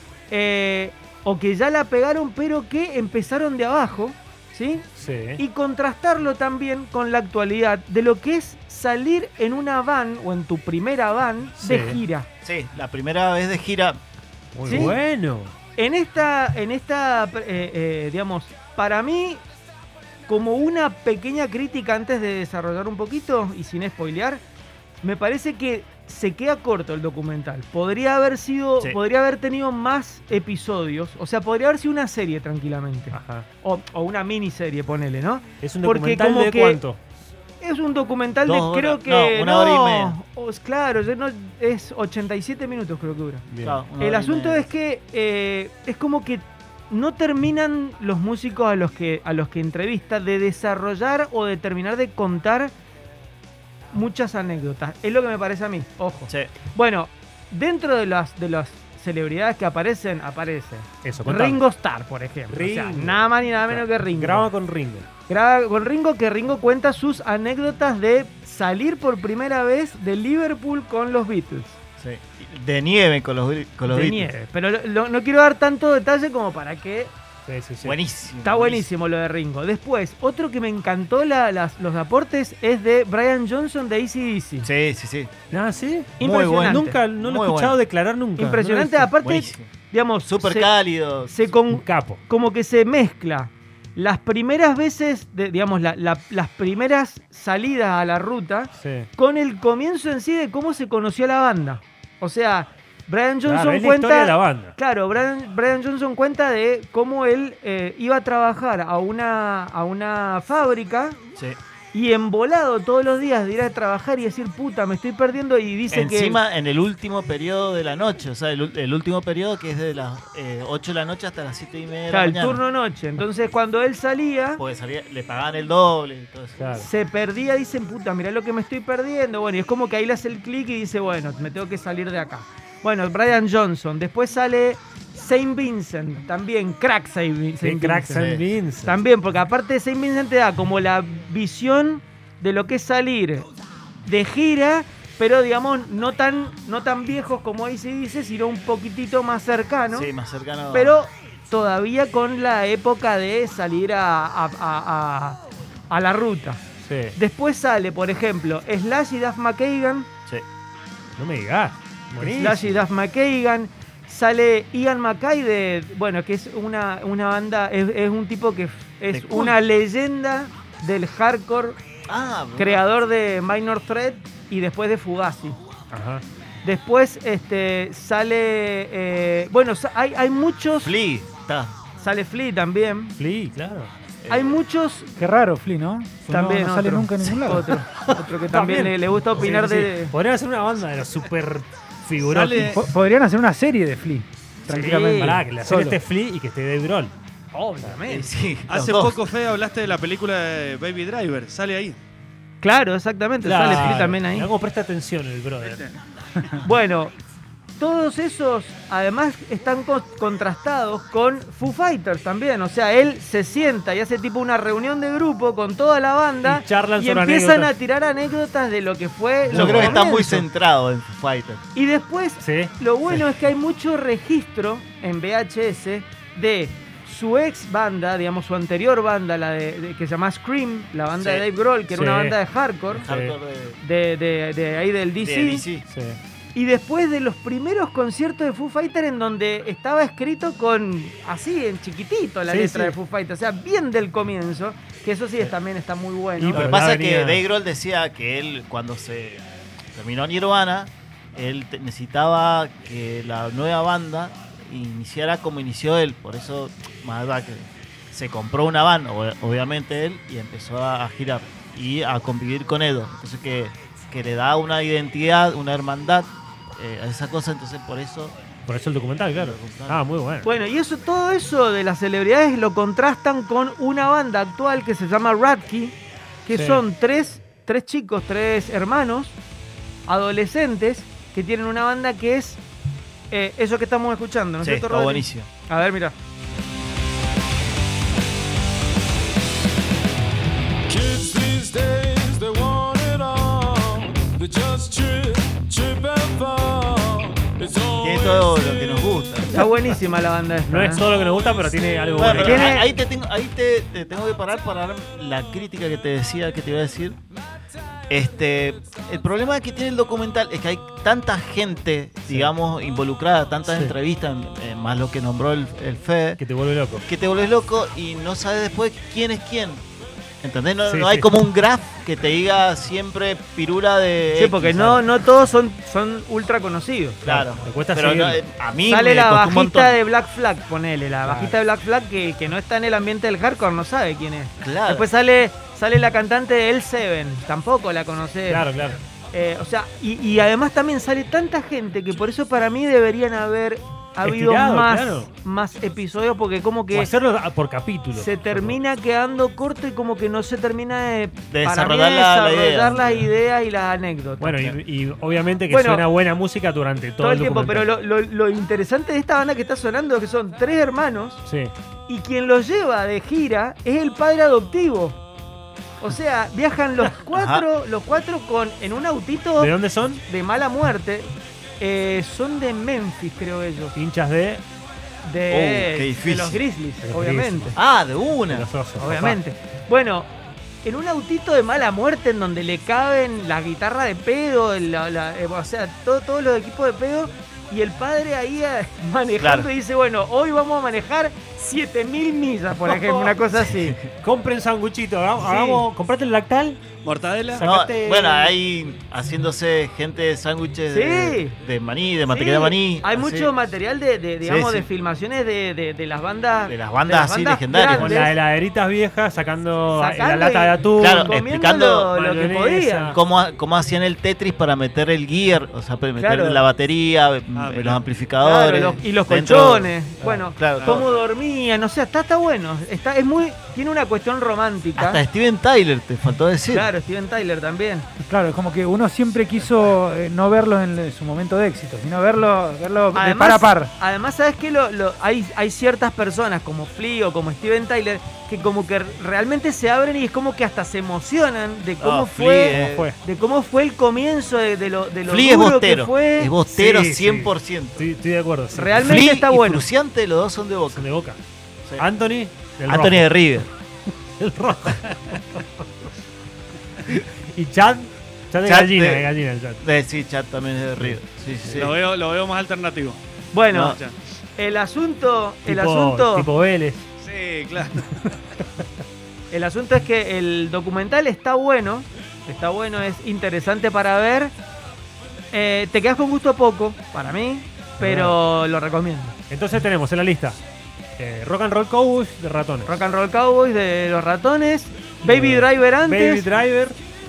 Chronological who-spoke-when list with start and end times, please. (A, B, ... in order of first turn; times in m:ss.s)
0:00.3-0:04.9 A
0:05.0-0:05.4 B
0:05.4-0:12.3 A
0:11.6-0:12.0 B
0:12.4-0:14.0 C
0:14.6-0:15.5 B
0:14.6-0:15.0 A
0:14.7-0:15.0 C
0:15.8-0:19.4 A
0:20.3-0:24.4 A
0:25.0-0:36.8 A
0:33.1-0:33.5 B
0:35.6-0:37.0 B
0:37.6-0:43.4 A
0:38.4-0:40.2 C
0:43.5-0:43.8 B
0:43.6-0:44.6 C
0:44.0-0:52.7 A
0:53.9-1:04.5 A
1:01.0-1:01.6 B
1:02.5-1:05.1 B
1:05.3-1:11.8 A
1:12.0-1:14.3 C
1:13.9-1:17.1 A
1:17.5-1:18.0 B
1:17.8-1:18.9 C
1:18.4-1:24.7 A
1:24.6-1:25.3 C
1:25.5-1:29.1 B
1:26.2-1:27.0 A
1:26.2-1:27.8 C
1:28.4-1:30.7 A
1:29.2-1:29.7 C
1:30.3-1:31.4 C
1:31.3-1:51.2 A
1:31.7-1:32.2 B
1:38.8-1:39.1 B
1:43.4-1:44.8 B
1:51.9-1:56.4 A
1:55.9-2:02.6 C
2:02.1-2:04.6 A
2:04.6-2:06.8 C
2:06.6-2:06.9 B
2:06.8-2:23.5 A
2:17.6-2:19.0 B
2:18.2-2:18.4 C
2:24.0-2:30.1 A
2:29.9-2:31.0 C
2:30.7-2:36.6 A
2:36.8-2:37.2 B
2:37.2-2:40.1 A
2:41.1-2:42.8 B
2:42.2-2:51.8 A
2:49.1-2:49.6 C
2:52.1-2:52.8 C
2:52.6-2:55.6 A
2:55.9-2:56.2 B
2:56.6-3:01.0 A
3:00.8-3:01.7 C
3:02.0-3:03.2 A
3:03.2-3:03.9 B
3:04.2-3:04.6 C
3:04.3-3:05.1 A
3:05.2-3:07.8 D
3:06.3-3:10.1 A
3:07.9-3:12.7 B
3:12.2-3:12.8 E
3:12.7-3:16.0 D
3:14.7-3:15.4 A
3:15.0-3:17.1 B
3:17.5-3:18.3 A
3:18.0-3:19.2 C
3:18.7-3:22.0 E
3:22.6-3:24.5 A
3:23.4-3:25.8 B
3:23.7-3:24.0 C
3:25.6-3:25.9 E
3:26.6-3:27.1 A
3:27.8-3:40.5 A
3:36.4-3:37.7 B
3:39.5-3:40.0 B
3:39.5-3:41.6 C
3:41.7-3:53.1 A
3:42.4-3:43.2 B
3:51.2-3:51.5 C
3:51.9-3:52.4 B
3:52.9-3:53.8 C
3:53.1-3:53.4 B
3:53.8-3:55.7 A
3:55.2-3:55.8 C
3:55.8-3:56.2 B
3:56.6-4:06.7 A
4:02.5-4:03.0 B
4:06.4-4:07.4 B
4:06.6-4:28.4 C
4:28.7-4:30.5 B
4:29.3-4:30.0 C
4:30.4-4:39.4 A
4:36.5-4:36.8 B
4:40.1-4:42.6 A
4:43.3-4:46.2 A
4:44.6-4:45.5 C
4:50.9-4:58.6 F
4:58.0-4:59.7 C
4:59.5-5:01.0 A
5:00.7-5:02.8 B
5:02.2-5:07.2 C
5:02.2-5:02.9 A
5:08.1-5:16.4 C
5:13.7-5:13.9 B
5:16.4-5:17.0 B
5:17.1-5:19.8 C
5:20.4-5:25.1 C
5:20.9-5:21.3 B
5:24.4-5:27.2 A
5:27.2-5:28.4 B
5:27.2-5:30.0 C
5:28.9-5:38.6 A
5:31.2-5:31.6 B
5:34.6-5:35.1 C
5:38.5-5:39.0 B
5:39.3-5:47.1 A
5:44.2-5:45.3 B
5:46.9-5:48.8 B
5:48.1-5:54.7 A
5:51.5-5:53.2 C
5:54.4-5:57.9 B
5:55.7-5:56.1 A
5:57.2-6:01.4 A
6:01.4-6:01.7 B
6:02.1-6:05.2 A
6:06.0-6:09.7 A
6:07.0-6:07.2 B
6:07.3-6:07.7 C
6:09.6-6:10.2 B
6:10.2-6:14.0 A
6:14.0-6:14.6 B
6:15.2-6:17.8 A
6:15.5-6:16.6 C
6:17.0-6:17.8 B
6:17.8-6:18.7 C
6:18.5-6:19.4 B
6:19.0-6:20.3 A
6:20.8-6:34.0 A
6:29.4-6:29.7 C
6:32.9-6:34.0 C
6:34.2-6:36.8 B
6:35.4-6:35.8 A
6:37.0-6:37.6 E
6:37.5-6:38.5 B
6:37.6-6:43.5 C
6:40.9-6:41.5 A
6:42.3-6:48.4 A
6:44.4-6:44.9 C
6:46.7-6:48.3 C
6:47.9-6:51.4 B
6:50.0-6:53.2 A
6:51.0-6:52.1 C
6:52.1-6:53.2 B
6:53.1-6:59.9 C
6:56.2-6:56.6 A
6:57.6-6:58.0 E
6:58.4-7:05.2 A
7:00.2-7:00.5 B
7:00.5-7:01.1 C
7:00.8-7:01.0 E
7:05.0-7:06.9 C
7:06.7-7:08.1 A
7:08.3-7:13.9 D
7:13.1-7:26.5 A
7:22.0-7:23.1 C
7:22.7-7:23.2 B
7:25.3-7:28.0 C
7:26.7-7:29.1 B
7:28.7-7:29.9 A
7:29.0-7:31.1 C
7:30.9-7:31.4 B
7:32.0-7:33.3 B
7:32.9-7:33.7 C
7:34.4-7:35.7 B
7:37.1-7:39.8 B
7:38.6-7:39.3 C
7:39.8-7:41.9 C
7:41.0-7:41.8 B
7:41.7-7:43.2 E
7:43.5-7:44.0 A
7:43.8-7:44.2 E
7:44.6-7:46.5 A
7:45.7-7:47.1 B
7:47.2-7:48.1 E
7:49.5-7:54.5 A
7:55.5-7:59.4 A
7:58.0-7:58.4 B
7:59.5-8:00.6 B
8:01.2-8:03.0 B
8:02.9-8:06.5 A
8:05.2-8:07.0 B